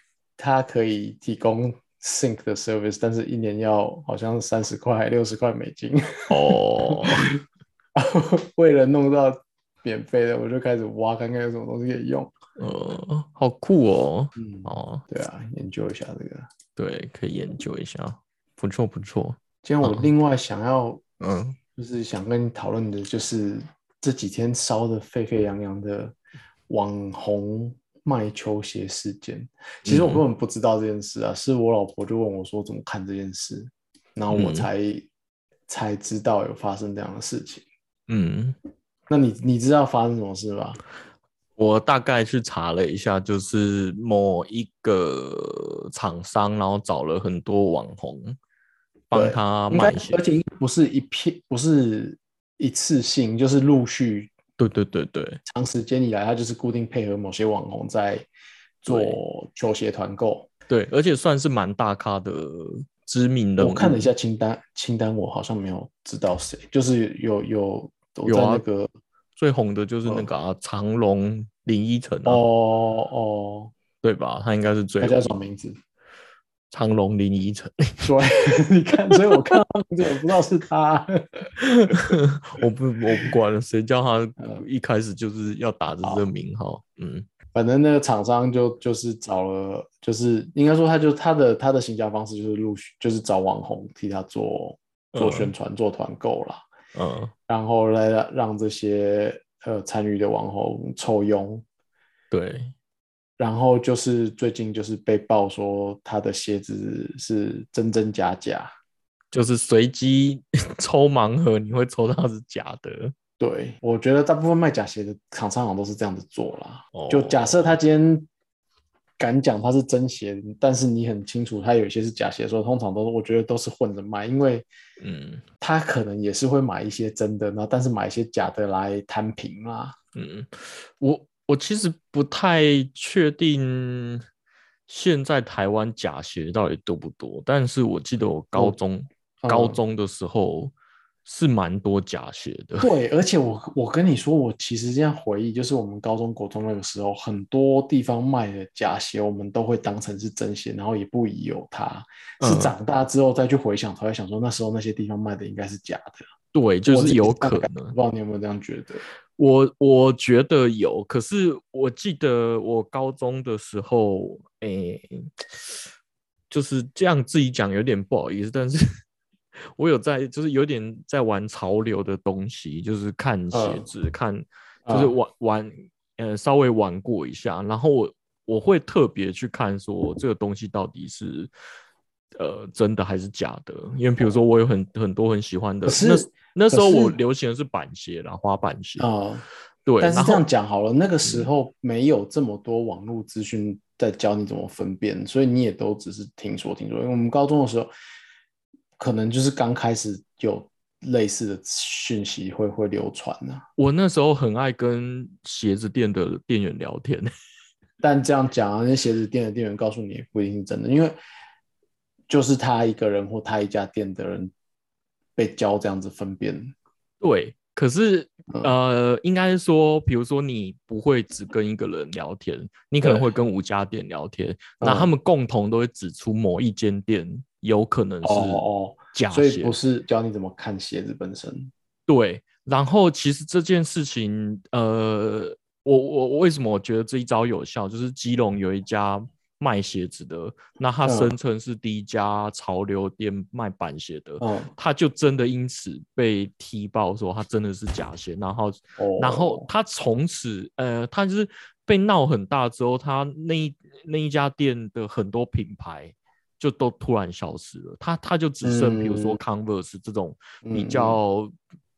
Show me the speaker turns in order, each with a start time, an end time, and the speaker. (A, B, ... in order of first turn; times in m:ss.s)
0:00.4-0:07.4 A
0:06.3-0:07.3 B
0:08.0-0:12.3 A
0:12.6-0:15.0 B
0:14.4-0:16.5 A
0:16.8-0:20.1 B
0:19.6-0:21.0 A
0:21.2-0:21.6 B
0:21.8-0:26.2 A
0:26.7-0:35.1 A
0:29.8-0:30.2 B
0:34.3-0:34.7 B
0:35.7-0:37.6 A
0:38.1-0:38.6 B
0:39.1-0:40.8 A
0:41.6-0:48.4 B
0:49.1-0:50.2 B
0:49.1-0:54.3 A
0:54.6-0:55.4 B
0:55.5-0:58.3 A
0:58.8-1:00.5 A
0:58.9-0:59.2 B
1:00.7-1:04.1 B
1:03.6-1:08.9 A
1:08.3-1:08.6 B
1:09.4-1:12.4 B
1:12.2-1:13.7 A
1:14.0-1:15.4 B
1:15.0-1:15.8 A
1:16.7-1:18.1 B
1:18.0-1:21.5 A
1:21.6-1:27.3 B
1:27.5-1:36.6 A
1:35.1-1:35.5 B
1:37.0-1:37.3 B
1:37.5-1:41.6 A
1:42.3-1:42.7 B
1:43.4-1:48.7 A
1:49.3-1:53.1 B
1:53.4-1:58.3 A
1:56.9-1:57.8 B
1:59.2-2:04.7 A
2:05.0-2:05.4 B
2:05.6-2:10.0 A
2:10.2-2:14.2 B
2:14.9-2:20.7 B
2:19.4-2:19.8 A
2:21.2-2:22.9 B
2:22.8-2:36.2 A
2:32.4-2:32.8 B
2:36.5-2:38.0 B
2:36.9-2:39.0 A
2:39.4-2:45.8 B
2:46.5-2:48.9 B
2:49.7-3:01.5 B
2:53.5-2:53.9 A
2:54.9-2:55.1 A
3:02.4-3:09.1 B
3:05.9-3:07.2 A
3:09.0-3:09.4 A
3:09.9-3:10.4 B
3:10.0-3:17.9 A
3:19.0-3:23.6 A
3:23.8-3:27.3 B
3:28.0-3:31.2 A
3:32.3-3:34.5 A
3:35.4-3:36.7 A
3:37.2-3:49.8 B
3:44.8-3:45.1 A
3:48.2-3:51.7 A
3:52.1-4:21.5 B
4:01.0-4:01.4 A
4:04.4-4:04.7 A
4:09.0-4:09.7 A
4:18.6-4:19.4 A
4:20.6-4:21.2 A